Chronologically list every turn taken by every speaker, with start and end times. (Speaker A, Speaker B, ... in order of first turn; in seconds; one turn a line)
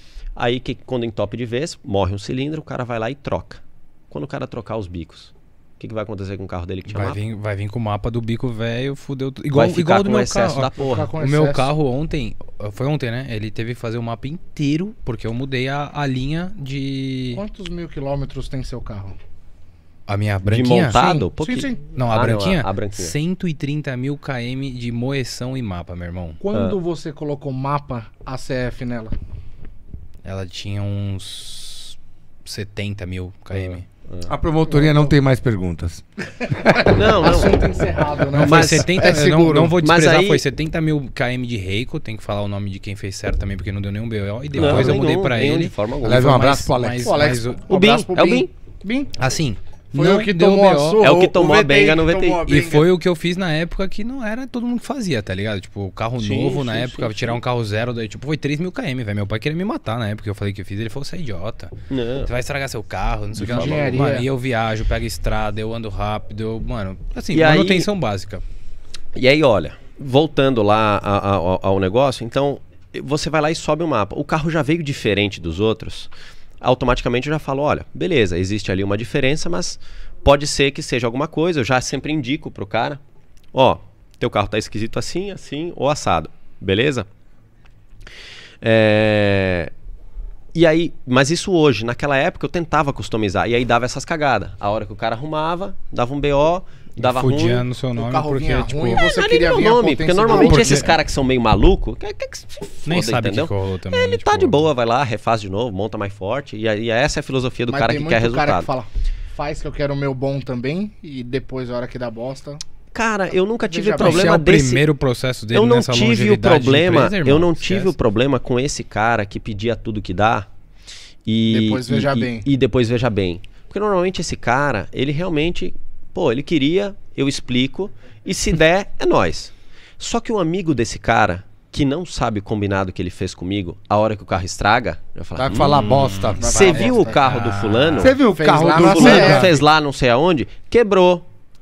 Speaker A: 0.4-7.2
Speaker B: 6.9-17.4
Speaker A: 9.5-11.1
Speaker C: 10.8-11.7
Speaker C: 17.3-19.2
Speaker B: 20.1-21.0
Speaker A: 20.4-23.1
Speaker C: 20.9-21.8
Speaker B: 21.9-26.4
Speaker C: 26.4-29.1
Speaker A: 26.5-26.8
Speaker B: 30.2-33.9
Speaker A: 33.5-34.3
Speaker D: 34.3-36.0
Speaker C: 36.6-39.8
Speaker A: 36.9-37.6
Speaker B: 38.3-47.8
Speaker A: 38.4-38.9
Speaker A: 39.8-40.4
Speaker D: 44.5-45.0
Speaker A: 44.6-46.3
Speaker D: 46.0-47.1
Speaker C: 47.0-49.1
Speaker A: 47.7-48.5
Speaker B: 49.2-51.0
Speaker C: 49.9-52.9
Speaker A: 51.0-52.6
Speaker B: 52.5-68.4
Speaker A: 56.2-57.4
Speaker A: 61.9-62.3
Speaker C: 63.4-64.3
Speaker A: 63.4-64.0
Speaker A: 67.3-67.9
Speaker A: 69.1-83.0
Speaker A: 83.5-87.1
Speaker A: 88.6-89.7
Speaker A: 90.5-97.7
Speaker B: 97.0-99.1
Speaker C: 98.0-100.9
Speaker A: 99.0-108.7
Speaker D: 100.3-101.0
Speaker B: 102.9-104.7
Speaker C: 107.7-112.6
Speaker A: 112.9-114.8
Speaker C: 113.7-114.3
Speaker B: 114.0-117.9
Speaker A: 115.5-120.5
Speaker A: 121.3-135.8
Speaker C: 121.5-122.5
Speaker D: 135.4-136.9
Speaker B: 135.6-138.1
Speaker C: 136.4-137.2
Speaker A: 136.4-138.2
Speaker D: 138.0-139.6
Speaker C: 138.3-139.5
Speaker A: 138.8-141.3